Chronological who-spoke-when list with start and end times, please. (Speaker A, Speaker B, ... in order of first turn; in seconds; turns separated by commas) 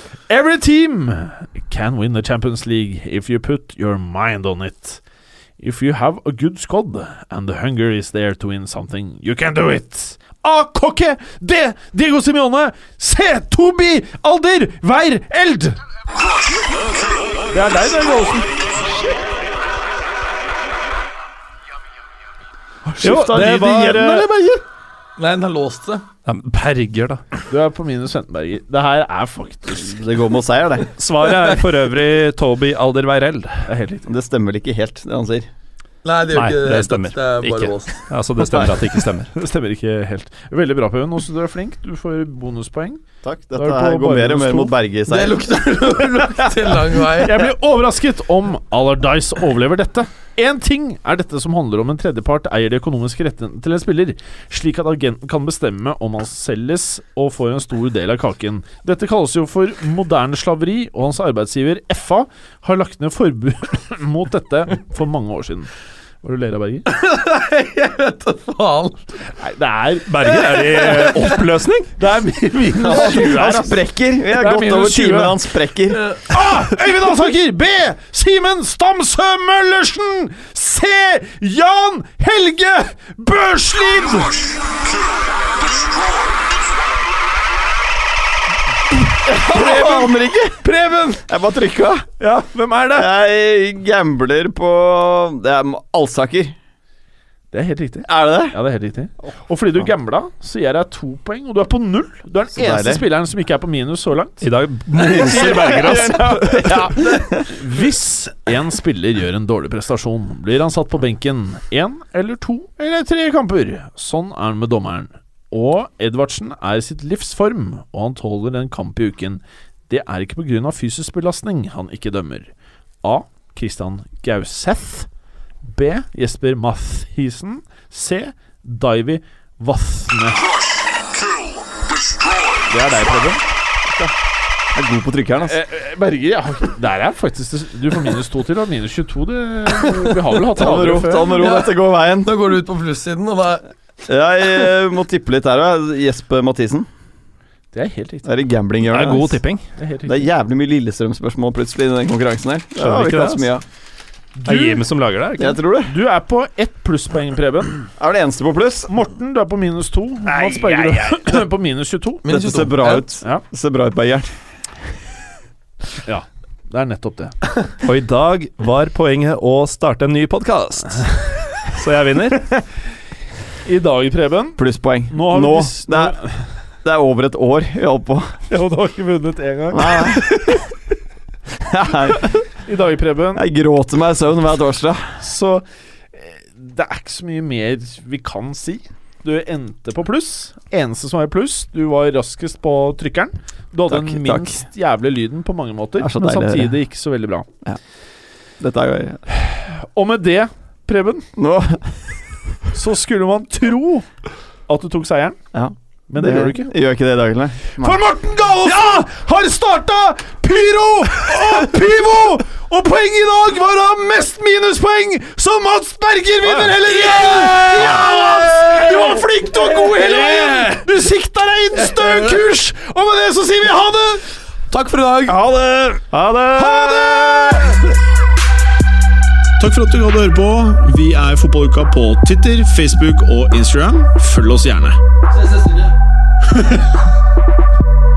Speaker A: 0.3-5.0, Speaker A: 5.6-15.8, Speaker A: 17.5-19.0, Speaker A: 22.9-24.3, Speaker B: 23.0-24.3, Speaker C: 23.1-24.6, Speaker D: 25.2-26.0, Speaker B: 26.2-27.2, Speaker A: 27.5-30.0, Speaker C: 29.8-30.9, Speaker B: 30.9-33.6, Speaker A: 33.6-34.1, Speaker C: 34.0-35.5, Speaker D: 36.0-38.0, Speaker B: 36.3-39.3, Speaker C: 38.4-38.8, Speaker A: 39.3-43.0, Speaker C: 43.2-45.4, Speaker A: 43.5-44.7, Speaker D: 45.1-47.5, Speaker A: 47.1-65.7, Speaker A: 66.2-66.9, Speaker D: 66.9-69.1, Speaker A: 69.3-75.4, Speaker B: 70.0-71.9, Speaker D: 70.8-71.0, Speaker C: 72.7-76.1, Speaker A: 76.3-84.6, Speaker C: 89.2-90.7, Speaker A: 89.3-90.1, Speaker A: 90.6-91.2, Speaker C: 91.2-92.1, Speaker A: 92.2-93.1, Speaker C: 93.0-96.5, Speaker A: 97.5-104.4, Speaker C: 98.0-98.6, Speaker C: 102.5-103.0, Speaker B: 104.4-106.7, Speaker C: 105.0-107.6, Speaker A: 105.0-122.5, Speaker A: 123.0-125.1, Speaker A: 125.7-130.5, Speaker A: 132.6-133.4, Speaker C: 133.8-134.1, Speaker C: 134.7-135.6, Speaker A: 135.4-141.4, Speaker D: 139.8-143.7, Speaker C: 140.5-142.5, Speaker C: 144.1-146.9, Speaker A: 147.7-148.3, Speaker C: 148.2-149.4, Speaker B: 148.9-149.7, Speaker A: 149.8-150.2, Speaker C: 150.0-153.6, Speaker B: 152.8-153.5, Speaker A: 154.4-154.8, Speaker B: 154.4-155.6, Speaker C: 155.4-155.9, Speaker A: 155.8-157.8, Speaker C: 158.0-158.9, Speaker A: 158.9-162.3, Speaker D: 160.7-161.2, Speaker D: 162.2-163.1, Speaker C: 162.3-164.3, Speaker A: 166.0-167.3, Speaker B: 167.8-171.1, Speaker B: 171.6-172.4, Speaker A: 173.7-176.4, Speaker C: 174.6-176.2, Speaker C: 176.8-178.3, Speaker A: 178.5-180.6, Speaker C: 179.7-180.6, Speaker C: 181.6-182.4, Speaker A: 182.7-183.4, Speaker C: 183.3-185.2, Speaker A: 185.2-197.5, Speaker C: 193.9-194.6, Speaker C: 196.0-196.8, Speaker C: 198.6-199.2, Speaker A: 199.6-201.3, Speaker C: 201.4-201.9, Speaker A: 202.7-204.1, Speaker A: 204.7-205.4, Speaker C: 205.5-208.0, Speaker A: 206.1-206.7, Speaker A: 207.8-224.2, Speaker D: 216.6-220.8, Speaker D: 221.9-222.3, Speaker D: 224.7-225.4, Speaker C: 225.3-227.1, Speaker A: 226.3-227.8, Speaker A: 229.6-235.0, Speaker D: 235.3-235.9, Speaker A: 236.5-236.8